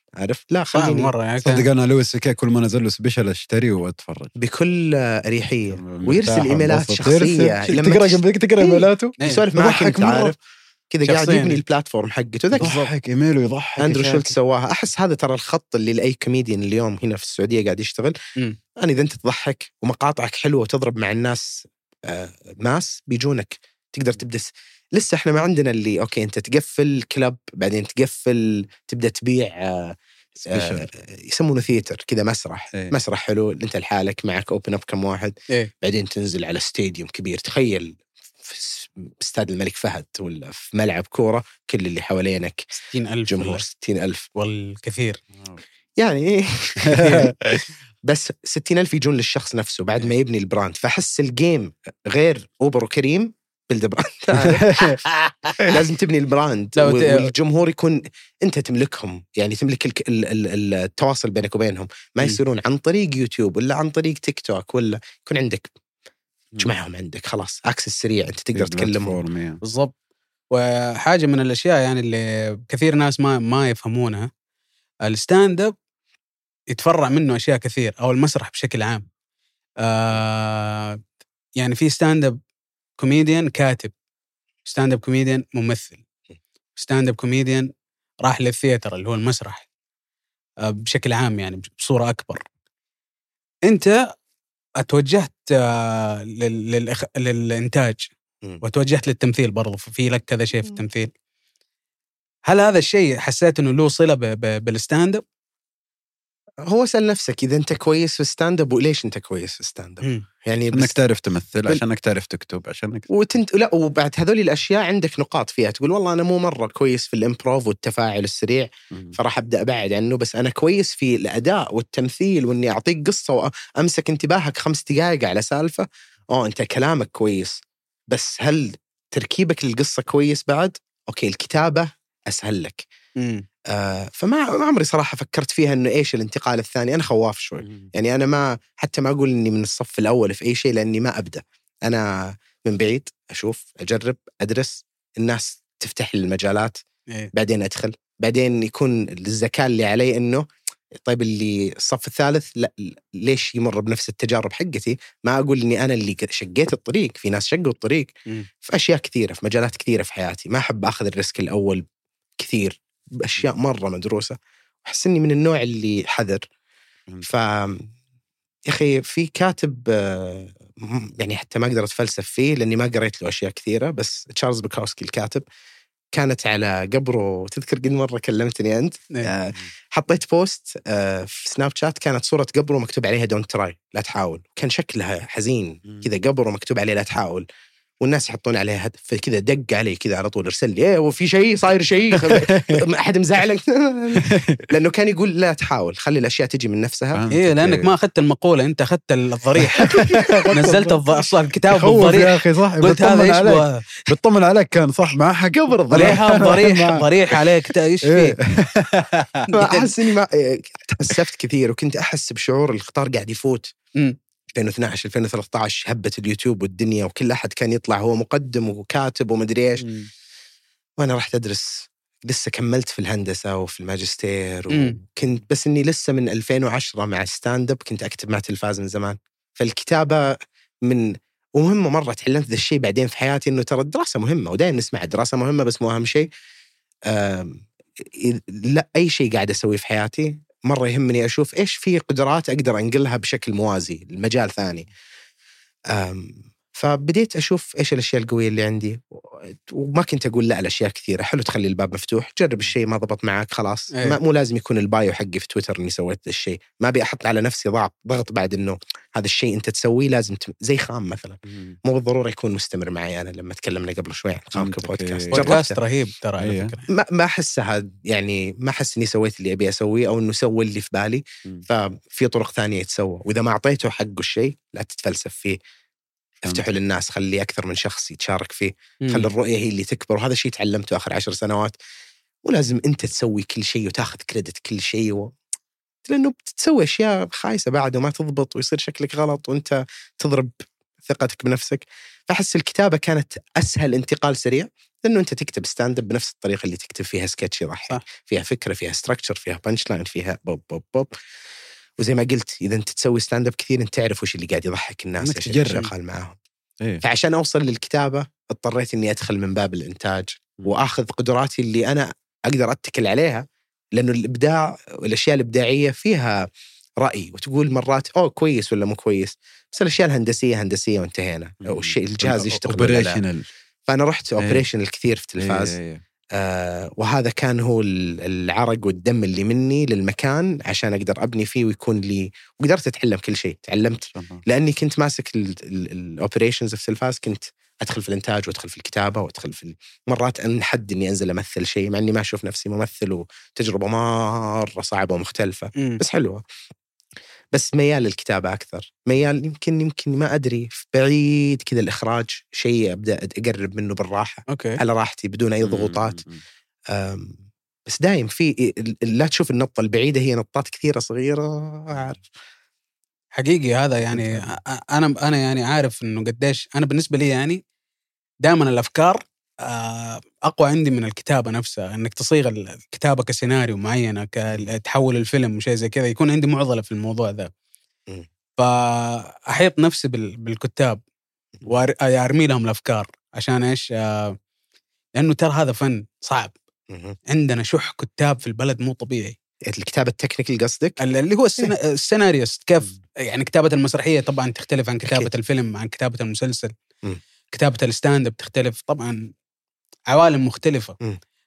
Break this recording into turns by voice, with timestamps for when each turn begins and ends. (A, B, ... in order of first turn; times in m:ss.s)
0:00.2-0:01.1 A
0:00.8-0:01.7 B
0:01.4-0:04.3 C
0:04.4-0:10.4 A
0:05.7-0:10.4 C
0:10.9-0:12.9 A
0:11.0-0:11.6 B
0:12.6-0:14.3 C
0:12.6-0:12.9 B
0:13.8-0:18.2 A
0:18.8-0:42.7 A
0:30.5-0:30.9 C
0:42.9-0:43.6 B
0:43.3-0:44.3 A
0:44.4-0:45.2 B
0:45.4-0:45.6 C
0:46.0-0:47.2 A
0:46.8-0:47.6 C
0:46.9-0:47.2 B
0:48.0-1:05.7 A
0:54.4-0:55.0 C
0:55.6-0:55.8 C
0:56.8-0:57.3 B
1:06.6-1:09.2 A
1:08.5-1:09.6 C
1:09.6-1:10.0 B
1:10.5-1:14.3 B
1:15.1-1:15.8 B
1:16.7-1:19.1 B
1:19.8-1:21.0 B
1:21.6-1:22.4 B
1:23.0-1:23.9 B
1:24.7-1:26.0 B
1:26.8-1:27.7 B
1:28.2-1:29.7 B
1:30.6-1:32.4 B
1:33.7-1:34.1 B
1:34.8-1:38.1 B
1:38.6-1:41.1 B
1:42.5-1:45.2 B
1:46.6-1:51.0 A
1:50.7-1:53.1 C
1:53.1-2:07.6 A
2:08.1-2:12.9 A
2:13.2-2:13.4 B
2:13.7-2:26.8 A
2:17.6-2:17.9 C
2:27.3-2:41.8 A
2:42.4-2:46.4 A
2:47.2-2:47.9 A
2:48.7-2:55.4 A
2:56.1-3:07.5 A
3:08.0-3:17.2 A
3:12.1-3:12.8 C
3:14.2-3:14.6 C
3:17.1-3:17.9 C
3:17.3-3:19.9 B
3:19.8-3:21.0 C
3:19.9-3:20.5 A
3:20.5-3:24.0 B
3:21.7-3:27.4 C
3:25.5-3:26.5 A
3:25.9-3:28.4 B
3:28.0-3:29.5 C
3:29.5-3:29.9 B
3:29.5-3:33.7 A
3:34.5-3:39.9 A
3:39.8-3:40.1 B
3:41.0-3:56.3 A
3:44.7-3:45.0 B
3:57.1-4:04.9 A
4:05.9-4:25.8 A
4:21.5-4:21.8 C
4:24.6-4:25.6 C
4:25.3-4:26.9 B
4:26.4-4:26.7 C
4:26.9-4:35.6 A
4:36.4-4:41.8 A
4:39.0-4:39.3 B
4:42.4-4:45.3 A
4:46.1-5:01.1 A
5:02.0-5:06.4 A
5:05.2-5:05.9 C
5:07.0-5:16.5 A
5:17.0-5:23.2 A
5:21.6-5:23.4 C
5:23.9-5:25.8 A
5:24.4-5:24.7 C
5:25.4-5:26.0 C
5:26.3-5:46.4 A
5:34.1-5:34.4 C
5:47.5-5:56.2 A
5:54.5-5:54.8 B
5:55.6-5:56.4 C
5:56.9-6:02.2 A
6:03.4-6:07.6 B
6:08.4-6:17.5 B
6:18.6-6:21.0 B
6:21.7-6:24.4 B
6:25.2-6:26.6 B
6:26.9-6:27.2 A
6:27.3-6:29.4 B
6:29.7-6:31.0 A
6:31.0-6:36.7 B
6:35.0-6:35.3 A
6:37.5-6:39.3 B
6:40.1-6:41.0 B